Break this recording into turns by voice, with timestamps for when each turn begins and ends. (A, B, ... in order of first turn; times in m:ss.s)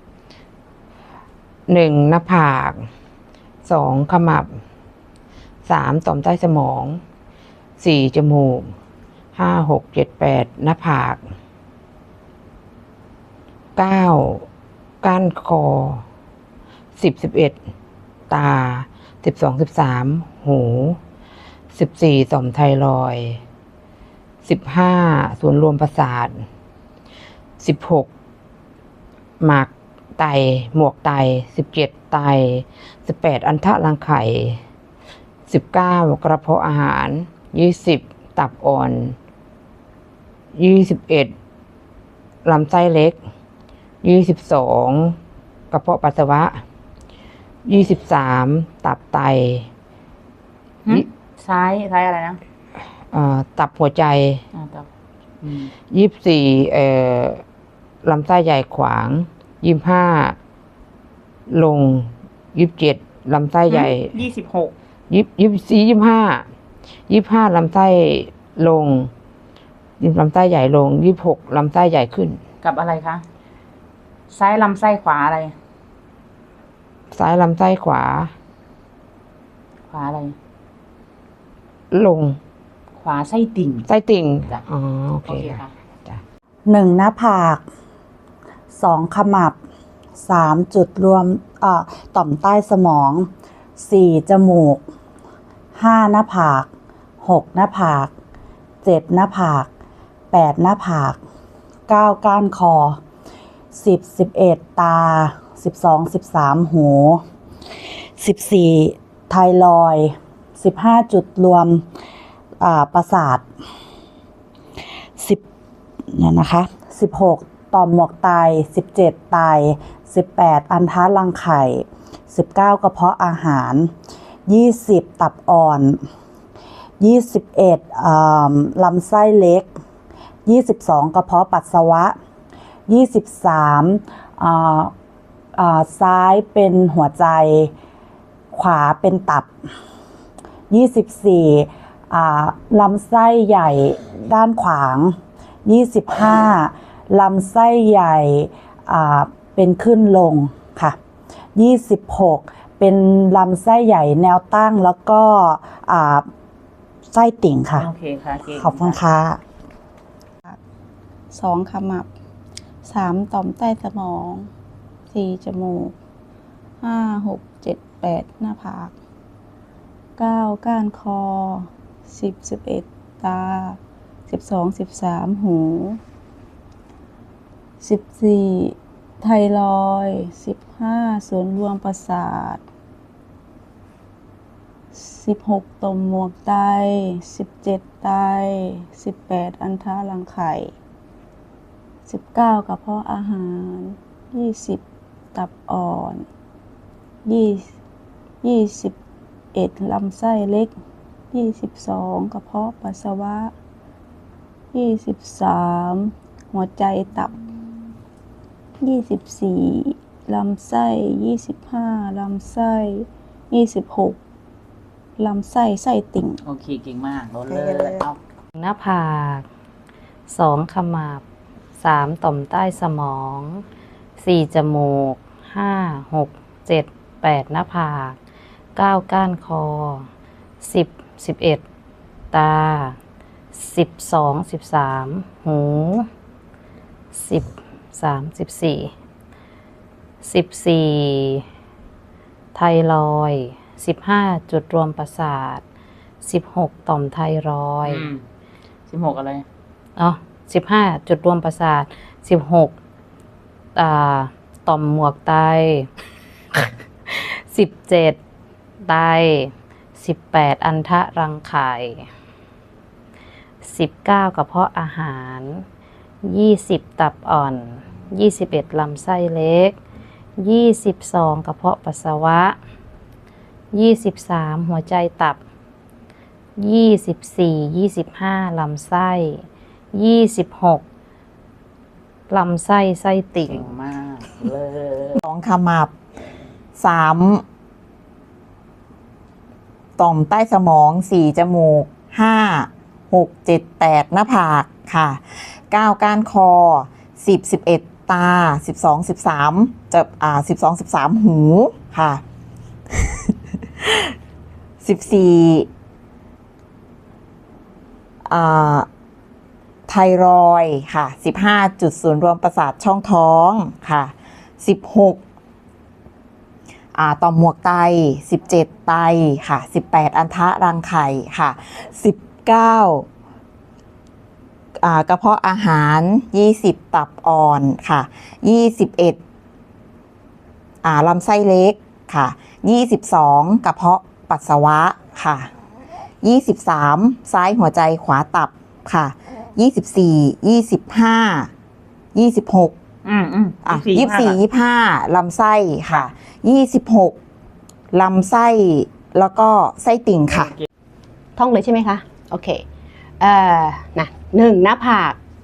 0:01.7-0:02.8 A
0:03.6-0:04.5 A
0:05.6-0:07.0 A
0:07.8-0:08.7 A
0:09.3-0:11.2 A
0:13.8-0:14.5 A
0:15.0-0:16.0 A
0:17.0-0:17.6 A
0:18.3-0:21.0 A
0:21.7-0:23.4 A
0:24.4-0:26.4 A
0:27.6-0:28.1 A
0:29.4-0:34.6 A
0:35.5-0:39.2 A
0:40.5-0:41.3 A
0:42.4-0:43.2 A
0:44.0-0:45.2 A
0:45.7-0:46.6 A
0:47.6-0:49.7 A
0:50.8-0:52.4 B
0:53.1-0:54.4 A
0:54.5-0:54.9 B
0:55.4-0:55.7 B
0:55.9-0:57.4 A
0:58.0-1:00.4 A
1:01.5-1:04.1 A
1:03.7-1:04.7 B
1:05.1-1:06.4 A
1:07.1-1:09.1 A
1:10.0-1:12.4 A
1:12.6-1:13.2 B
1:14.3-1:15.6 B
1:17.1-1:18.3 A
1:19.9-1:20.4 B
1:21.9-1:22.4 A
1:23.0-1:23.9 B
1:23.8-1:26.2 A
1:25.2-1:25.7 B
1:26.7-1:27.6 C
1:28.7-1:29.6 C
1:30.2-1:34.8 C
1:35.8-1:36.7 C
1:37.2-1:38.1 C
1:38.8-1:39.7 C
1:40.3-1:41.2 C
1:41.9-1:43.0 C
1:43.7-1:47.2 C
1:48.2-1:51.8 C
1:52.6-1:53.4 C
1:56.1-2:03.9 C
2:04.5-2:06.0 C
2:07.0-2:09.7 C
2:10.5-2:12.2 C
2:12.9-2:14.9 C
2:15.6-2:17.7 C
2:18.5-2:19.5 C
2:20.7-2:31.0 C
2:31.6-2:36.3 C
2:37.1-2:37.9 C
2:37.8-2:39.0 B
2:38.5-2:39.4 C
2:41.3-2:42.1 D
2:42.8-2:44.5 D
2:45.1-2:45.9 D
2:46.8-2:48.9 D
2:50.2-2:53.8 D
2:54.3-2:56.0 D
2:57.8-3:02.6 D
3:04.9-3:10.7 D
3:12.1-3:14.8 D
3:15.3-3:16.3 D
3:17.2-3:17.7 D
3:18.4-3:19.0 D
3:19.5-3:20.7 D
3:21.3-3:23.5 D
3:24.7-3:27.3 D
3:28.8-3:34.2 D
3:35.2-3:36.4 D
3:36.4-3:38.2 B
3:38.6-3:39.4 E
3:40.3-3:41.2 E
3:41.8-3:43.6 E
3:44.2-3:48.2 E
3:48.8-3:50.1 E
3:50.6-3:51.6 E
3:52.3-3:53.0 E
3:53.5-3:56.1 E
3:57.1-3:58.9 E
4:00.2-4:01.4 E
4:02.6-4:05.6 E
4:06.2-4:08.1 E
4:07.8-4:08.2 B
4:08.9-4:09.5 B
4:10.0-4:12.7 E
4:13.8-4:15.9 E
4:16.6-4:18.2 E
4:18.8-4:22.1 E
4:23.6-4:25.6 E
4:26.2-4:29.8 E
4:30.4-4:32.6 E
4:33.7-4:35.4 E
4:36.6-4:40.8 E
4:42.3-4:43.6 E
4:43.5-4:45.2 B
4:45.2-4:45.9 F
4:46.8-4:47.4 F
4:50.0-5:02.2 F
5:04.8-5:05.7 F
5:08.3-5:08.9 F
5:09.9-5:15.2 F
5:16.9-5:23.1 F
5:24.8-5:29.2 F
5:30.8-5:35.5 F
5:36.2-5:41.5 F
5:42.2-5:42.7 F
5:43.0-5:44.4 B
5:43.6-5:47.2 F
5:47.9-5:50.5 F
5:50.3-5:50.6 B
5:51.4-5:52.6 G
5:53.2-5:55.2 G